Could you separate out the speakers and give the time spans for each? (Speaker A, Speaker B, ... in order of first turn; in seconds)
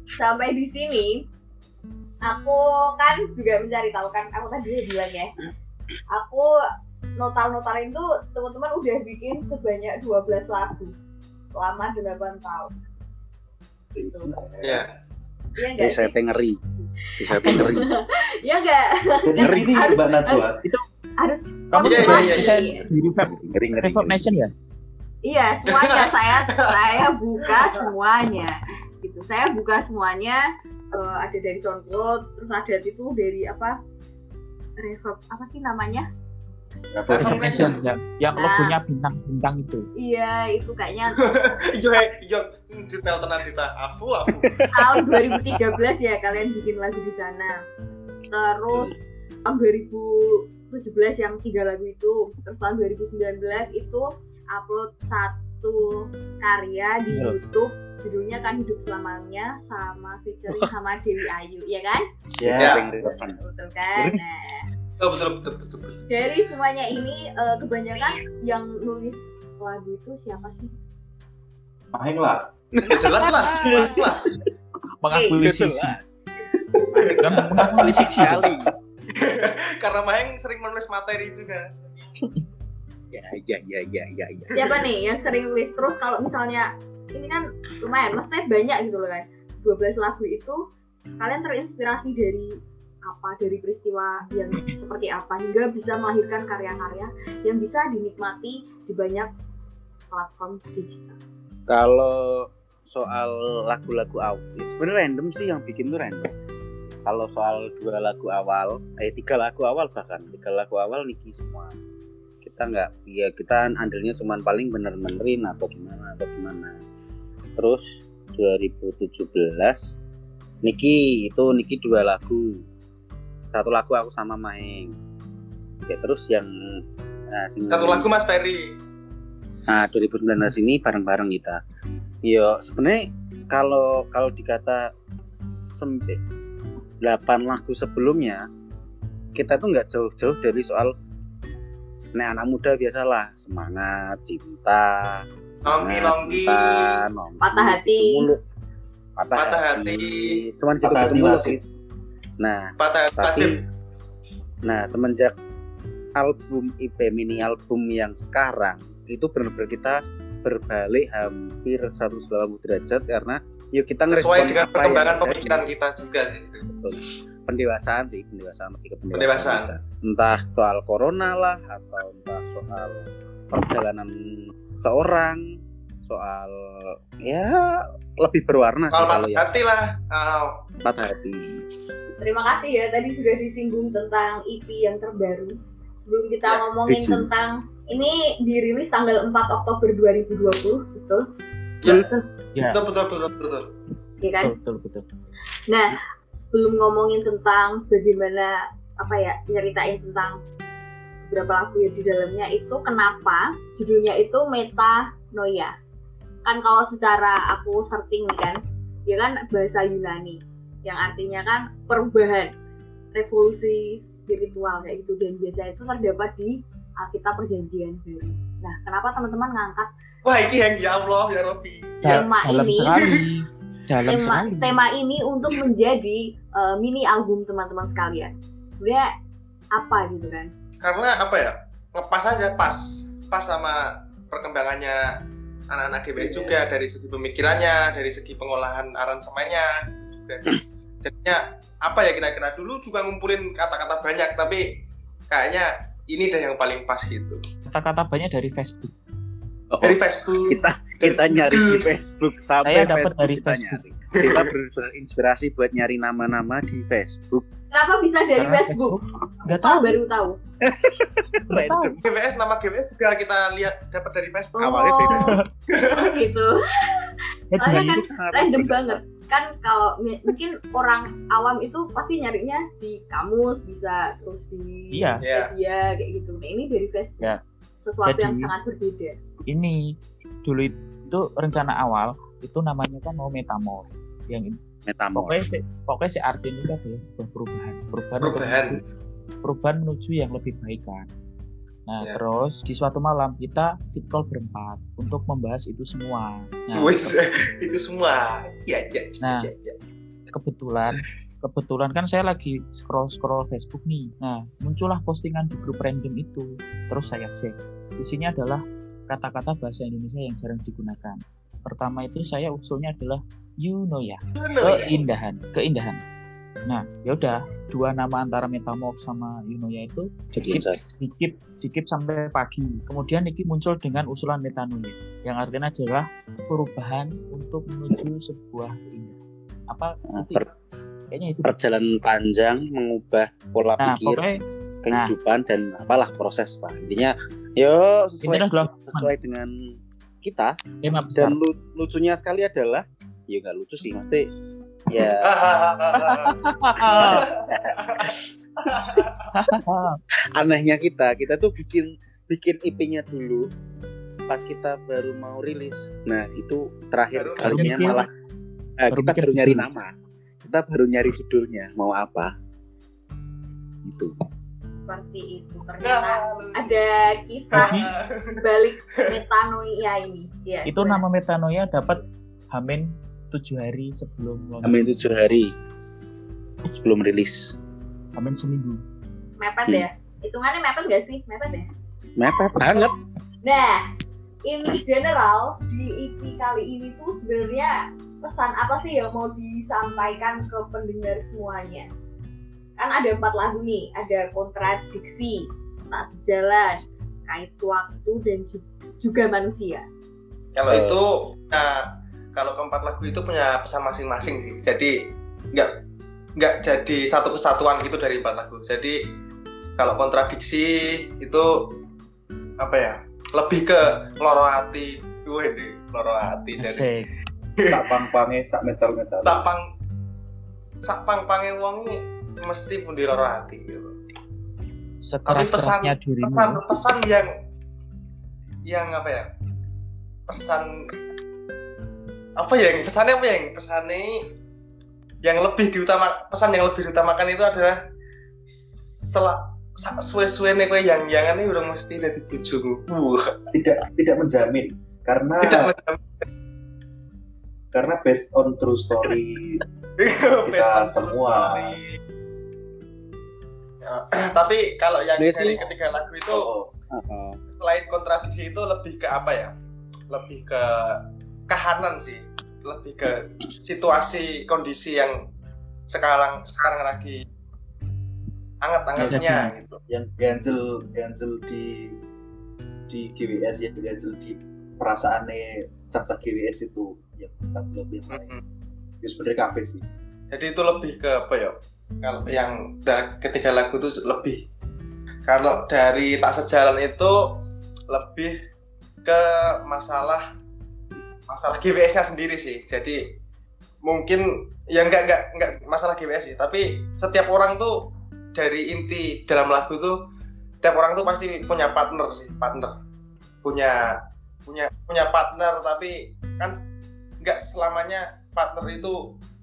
Speaker A: 0.2-1.2, 2.2-5.3, 6.1-6.5, 7.2-10.9, 11.6-12.7, 14.0-14.3, 15.6-16.1, 17.0-20.5, 21.2-22.8, 25.2-30.4, 30.9-33.7, 34.8-36.1, 38.3-38.8, 40.0-41.2, 44.7-47.5, 48.3-48.9, 49.5-62.0, 63.0-64.6, 66.1-70.7, 75.1-75.4, 84.5-90.6, 91.2-92.5, 93.1-99.3, 100.1-101.2, 147.4-148.2, 182.2-185.5, 186.1-191.2, 191.9-192.2, 194.2-194.5, 195.7-195.9, 196.5-200.4, 201.3-205.7, 206.4-212.5, 213.1-219.9, 222.0-223.0, 224.1-229.1, 229.7-230.5, 257.7-259.0, 259.6-260.4, 264.6-279.1, 364.9-367.8, 368.4-371.0, 379.4-381.7, 383.4-383.8, 384.5-391.9, 392.8-399.8
Speaker B: 13.9-14.8, 19.2-20.6, 36.9-37.8, 62.4-62.9, 71.9-72.5, 77.6-78.4, 150.8-151.6, 417.7-419.5, 443.5-445.7, 447.7-449.6, 450.4-451.8, 456.3-456.7, 469.9-472.0, 472.9-478.3, 479.0-479.8
Speaker C: 14.6-14.9, 21.8-22.6, 25.6-27.8, 37.1-37.8, 41.1-44.7, 62.5-62.9, 65.0-66.0, 72.9-74.3, 76.9-77.4, 79.1-81.7, 127.7-128.6, 145.7-147.0, 149.3-150.4, 152.8-153.6, 164.1-166.7, 169.1-169.7, 178.9-180.5, 192.6-193.7, 220.2-222.4, 222.9-223.3, 230.8-235.0, 235.7-244.6, 245.3-247.4, 249.8-251.9, 254.1-254.5, 262.0-264.8, 265.7-266.2, 275.2-275.5, 288.2-288.8, 296.7-299.8, 314.4-315.0, 345.0-349.4, 357.1-358.1, 365.8-366.8, 367.5-368.4, 400.5-401.8, 402.3-404.9, 406.4-409.0, 409.8-411.5, 412.6-416.9, 417.6-417.9, 419.2-419.6, 420.8-423.9, 425.2-427.3, 428.7-429.2, 430.3-431.0, 432.4-434.2, 435.2-437.8, 438.4-443.5, 445.4-446.0, 450.0-451.9, 453.8-456.5, 457.5-459.5, 460.1-465.1, 465.9-467.2, 468.6-469.8, 478.1-478.4, 480.3-484.4, 485.3-488.3, 489.0-490.2, 491.3-493.0, 493.9-497.8, 498.3-499.9, 500.6-502.7, 503.4-503.8, 504.4-506.6, 507.2-509.0
Speaker D: 15.8-16.6, 17.2-17.9, 22.1-24.2, 44.4-45.6, 62.4-63.4, 64.0-64.2, 72.8-74.4, 75.4-76.1, 76.9-78.7, 83.1-84.8, 101.7-106.3, 107.0-111.7, 112.4-116.8, 117.6-119.9, 120.6-122.6, 123.5-124.9, 125.9-128.1, 129.7-131.6, 132.2-134.9, 135.5-136.2, 137.0-138.4, 139.3-140.9, 142.1-148.4, 149.2-151.6, 152.4-153.5, 154.6-155.3, 156.2-165.7, 166.7-175.4, 176.0-179.6, 180.8-181.6, 186.9-187.3, 249.7-257.4, 260.6-262.0, 264.6-265.4, 267.6-269.0, 284.9-285.5, 320.3-320.8, 330.1-330.4, 331.4-334.2, 334.8-339.5, 340.2-340.6, 341.1-344.2, 344.9-345.3, 347.0-348.2, 350.3-353.5, 354.3-358.1, 358.8-359.9, 360.4-362.3, 363.8-364.1, 374.6-375.5, 376.7-377.5, 382.2-382.9, 400.7-401.0, 455.2-455.6, 456.9-457.4
Speaker E: 21.7-24.5, 37.1-39.9, 73.4-74.0, 75.0-76.0, 77.0-78.5, 192.6-192.8, 194.4-195.0, 222.0-224.8, 247.7-248.9, 252.6-253.8, 258.4-260.0, 261.5-262.0, 267.5-267.9, 274.9-275.2, 278.0-278.5, 279.5-279.9, 280.4-284.6, 285.1-288.8, 289.4-291.1, 291.9-297.2, 299.2-299.5, 300.3-316.0, 316.7-329.2, 329.7-330.5, 331.1-331.5, 333.8-334.4, 338.2-339.1, 340.8-341.4, 345.9-347.2, 349.3-350.0, 357.4-358.1, 358.9-359.7, 367.6-367.9, 370.7-372.0, 372.5-375.0, 378.1-378.8, 416.6-417.1, 425.0-426.6, 469.0-469.5